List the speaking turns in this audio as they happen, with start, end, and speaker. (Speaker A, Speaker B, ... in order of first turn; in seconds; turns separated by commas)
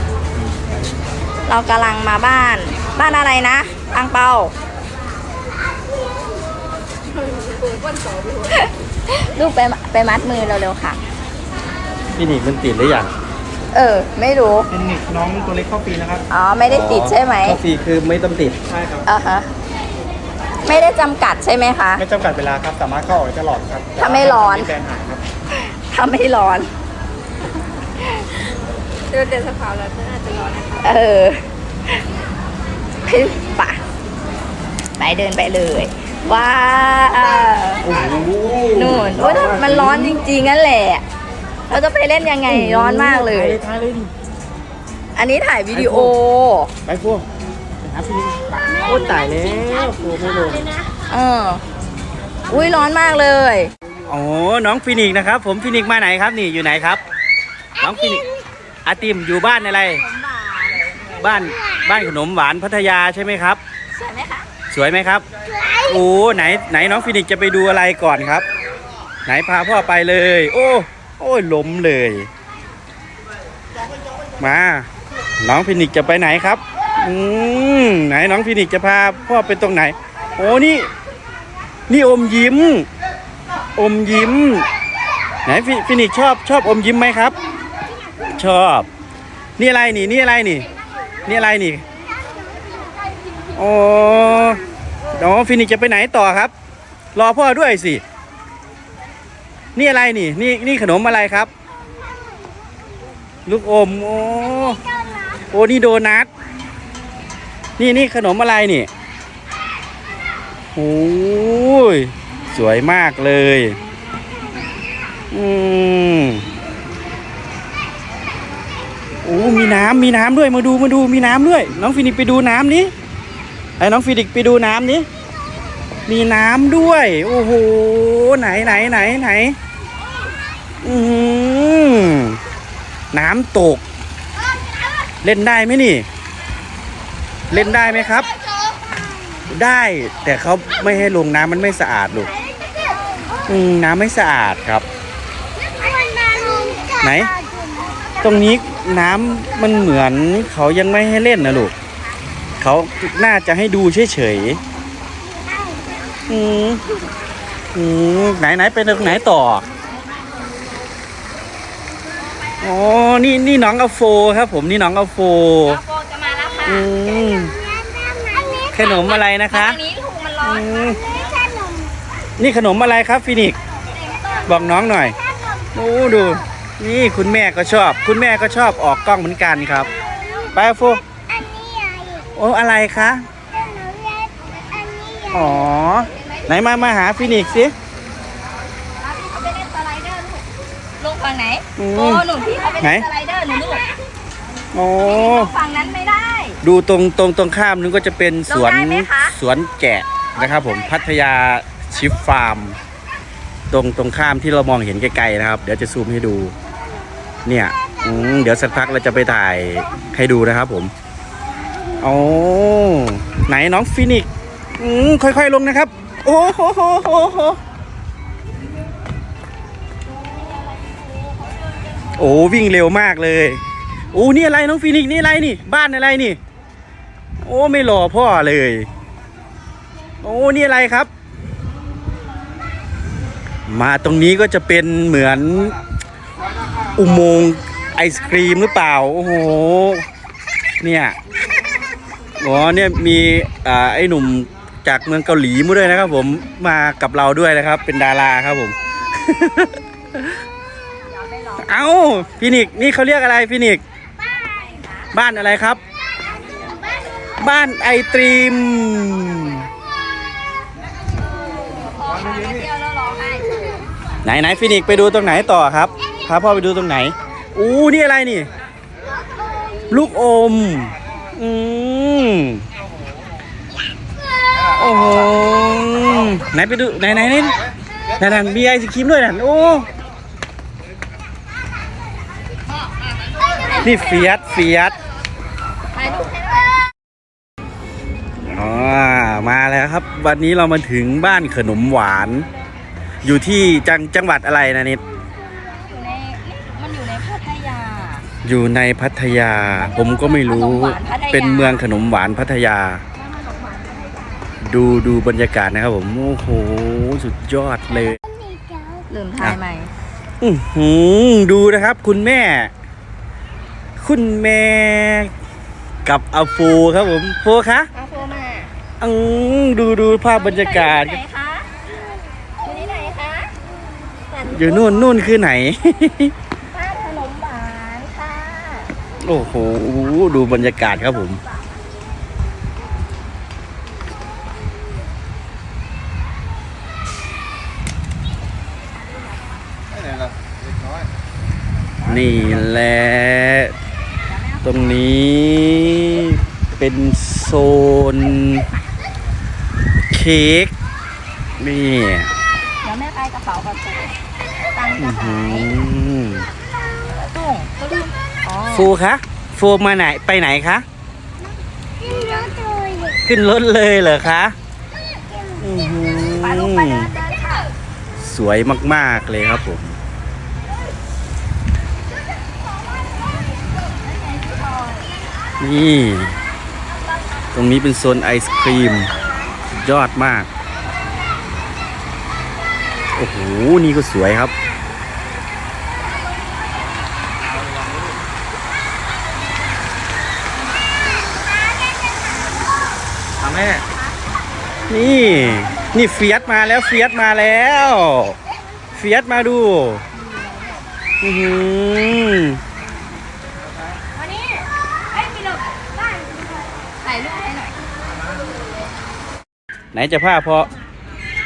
Speaker A: 1.5-4.5, Speaker A: 8.4-11.0, Speaker B: 12.2-13.1, Speaker A: 13.7-14.7, Speaker C: 14.7-16.2, Speaker A: 16.3-17.6, Speaker B: 16.7-18.8, Speaker A: 19.1-19.5, Speaker A: 20.6-22.0, Speaker C: 22.0-25.2, Speaker A: 24.0-24.8, Speaker A: 25.5-26.7, Speaker D: 29.3-30.6, Speaker A: 30.7-31.4, Speaker A: 33.1-33.8, Speaker A: 35.0-37.8, Speaker B: 37.8-40.2, Speaker A: 38.7-41.0, Speaker A: 41.7-43.6, Speaker B: 42.5-44.1, Speaker A: 45.2-46.7, Speaker B: 45.7-46.2, Speaker B: 46.9-47.2, Speaker B: 47.8-50.8, Speaker A: 51.1-51.6, Speaker A: 52.5-53.7, Speaker B: 54.1-57.0, Speaker B: 57.8-58.3, Speaker B: 58.9-60.0, Speaker A: 59.8-60.9, Speaker B: 61.1-63.6, Speaker A: 63.9-64.5, Speaker B: 64.7-65.2, Speaker B: 65.9-68.5, Speaker B: 69.3-72.3, Speaker B: 74.4-74.9, Speaker B: 75.4-80.9, Speaker B: 81.9-82.9, Speaker B: 83.8-84.7, Speaker B: 85.5-87.4, Speaker B: 88.4-88.9, Speaker B: 89.6-90.7, Speaker B: 91.3-91.8, Speaker B: 93.6-94.6, Speaker B: 95.2-96.5, Speaker B: 97.1-98.0, Speaker B: 99.8-101.5, Speaker B: 103.5-104.8, Speaker B: 105.5-106.3, Speaker B: 107.8-108.9, Speaker B: 110.8-113.8, Speaker B: 115.3-116.5, Speaker B: 119.2-122.9, Speaker B: 123.8-125.1, Speaker B: 126.1-129.6, Speaker B: 130.8-132.4, Speaker B: 133.1-133.8, Speaker B: 135.2-136.1, Speaker B: 137.5-138.3, Speaker B: 139.5-142.3, Speaker B: 143.5-144.8, Speaker D: 145.9-146.9, Speaker B: 147.0-147.3, Speaker B: 148.2-151.7, Speaker B: 152.6-154.6, Speaker B: 156.3-157.0, Speaker B: 157.7-159.7, Speaker B: 162.6-165.8, Speaker A: 165.7-166.9, Speaker B: 166.7-167.6, Speaker D: 167.8-168.7, Speaker B: 168.7-169.8, Speaker A: 168.8-171.2, Speaker B: 170.4-171.0, Speaker D: 171.4-171.9, Speaker B: 172.4-173.6, Speaker B: 174.4-175.2, Speaker B: 175.7-179.9, Speaker B: 180.5-181.0, Speaker D: 181.3-182.3, Speaker B: 182.3-183.2, Speaker D: 183.5-185.3, Speaker B: 185.3-187.7, Speaker A: 186.1-186.5, Speaker A: 189.0-190.4, Speaker A: 191.0-193.9, Speaker B: 191.8-192.3, Speaker B: 192.8-193.1, Speaker B: 194.7-195.5, Speaker A: 195.1-196.6, Speaker B: 196.6-202.8, Speaker A: 198.5-199.3, Speaker B: 203.7-206.5, Speaker B: 207.5-210.9, Speaker B: 212.0-214.3, Speaker B: 214.8-217.6, Speaker B: 222.2-223.6, Speaker B: 224.1-226.4, Speaker B: 227.4-228.9, Speaker B: 230.2-231.1, Speaker B: 233.7-235.8, Speaker B: 236.9-240.1, Speaker B: 240.8-241.2, Speaker B: 242.4-250.4, Speaker A: 251.1-252.1, Speaker B: 251.6-253.8, Speaker A: 254.6-255.1, Speaker B: 255.1-255.8, Speaker B: 257.4-259.7, Speaker A: 261.7-263.6, Speaker B: 264.2-268.5, Speaker B: 269.9-272.6, Speaker B: 274.8-277.6, Speaker B: 278.2-279.9, Speaker A: 283.6-284.3, Speaker B: 283.8-284.9, Speaker A: 285.9-286.8, Speaker B: 288.4-292.5, Speaker B: 293.2-295.0, Speaker A: 295.7-298.3, Speaker B: 298.4-303.0, Speaker A: 300.3-301.9, Speaker B: 304.6-308.2, Speaker D: 308.5-309.0, Speaker A: 309.1-309.9, Speaker B: 310.4-312.7, Speaker B: 314.0-315.3, Speaker B: 316.1-317.9, Speaker A: 317.9-318.7, Speaker B: 319.0-321.2, Speaker A: 320.4-321.7, Speaker A: 322.6-323.5, Speaker B: 324.4-326.3, Speaker A: 326.7-328.9, Speaker B: 329.2-331.4, Speaker B: 342.0-343.7, Speaker A: 344.3-344.9, Speaker B: 344.6-348.7, Speaker B: 350.1-350.7, Speaker B: 351.6-352.3, Speaker A: 352.8-354.2, Speaker A: 354.7-355.7, Speaker B: 355.0-356.5, Speaker A: 357.0-358.9, Speaker B: 358.7-360.9, Speaker D: 362.4-363.2, Speaker B: 363.2-364.6, Speaker B: 365.6-367.1, Speaker A: 366.4-367.7, Speaker B: 368.2-370.0, Speaker A: 374.0-375.1, Speaker B: 375.6-376.4, Speaker B: 377.5-379.1, Speaker B: 379.7-380.5, Speaker B: 383.2-384.5, Speaker B: 393.5-393.8, Speaker B: 394.9-398.4, Speaker B: 398.9-400.0, Speaker B: 401.2-402.6, Speaker A: 407.0-407.8, Speaker B: 409.9-410.7